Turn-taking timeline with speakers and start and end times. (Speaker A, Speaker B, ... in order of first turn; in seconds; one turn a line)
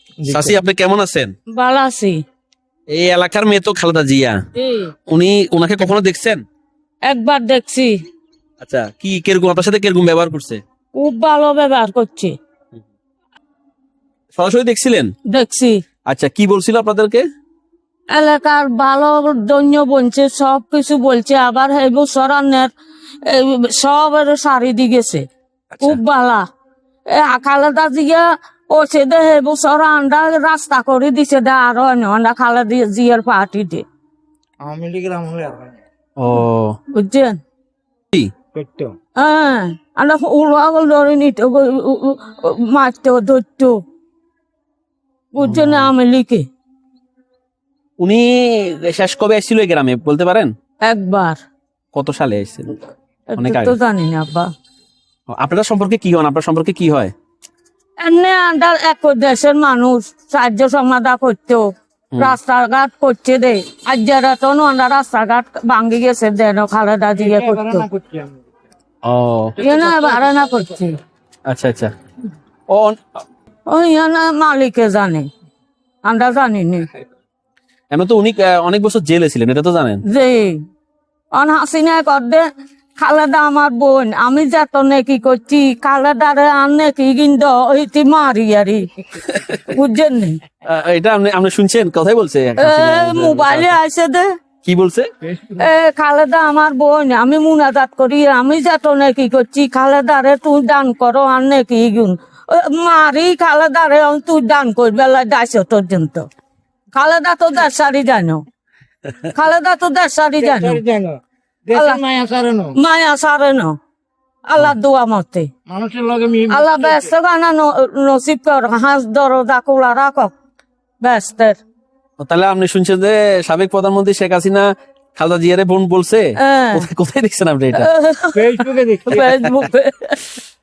Speaker A: 0.2-0.5
Speaker B: 0.3-1.3
Speaker C: 1.5-2.2
Speaker B: 2.9-4.4
Speaker C: 4.5-4.9
Speaker B: 5.1-6.4
Speaker C: 7.0-8.0
Speaker B: 8.6-10.6
Speaker C: 10.9-12.4
Speaker B: 14.3-15.1
Speaker C: 15.3-15.8
Speaker B: 16.1-17.2
Speaker C: 18.1-25.3
Speaker B: 25.7-26.0
Speaker C: 25.8-26.5
Speaker C: 27.1-33.8
Speaker A: 34.6-35.8
Speaker B: 36.2-36.8
Speaker C: 36.9-37.4
Speaker A: 38.5-39.0
Speaker C: 39.2-43.8
Speaker C: 45.3-46.5
Speaker B: 45.4-45.9
Speaker B: 48.0-50.5
Speaker C: 50.8-51.4
Speaker B: 51.9-52.6
Speaker C: 53.3-54.5
Speaker B: 53.4-53.8
Speaker B: 55.3-57.1
Speaker C: 58.0-67.9
Speaker A: 67.1-68.4
Speaker B: 69.0-69.6
Speaker C: 69.6-71.0
Speaker A: 69.6-70.7
Speaker B: 71.5-71.9
Speaker B: 72.7-73.0
Speaker C: 73.7-75.3
Speaker C: 76.0-76.9
Speaker B: 77.9-80.0
Speaker C: 80.1-80.6
Speaker C: 81.3-88.9
Speaker B: 89.2-89.7
Speaker C: 89.7-90.4
Speaker B: 90.7-93.8
Speaker C: 92.6-94.3
Speaker B: 94.6-95.1
Speaker C: 95.6-106.3
Speaker C: 106.9-108.4
Speaker C: 109.3-110.8
Speaker A: 110.4-112.8
Speaker C: 112.8-113.8
Speaker C: 114.5-115.5
Speaker A: 115.7-117.1
Speaker C: 116.5-120.3
Speaker C: 121.0-121.6
Speaker B: 122.2-127.9
Speaker C: 126.4-126.8
Speaker C: 127.8-128.6
Speaker A: 128.3-129.4
Speaker B: 129.1-129.6
Speaker C: 129.2-130.4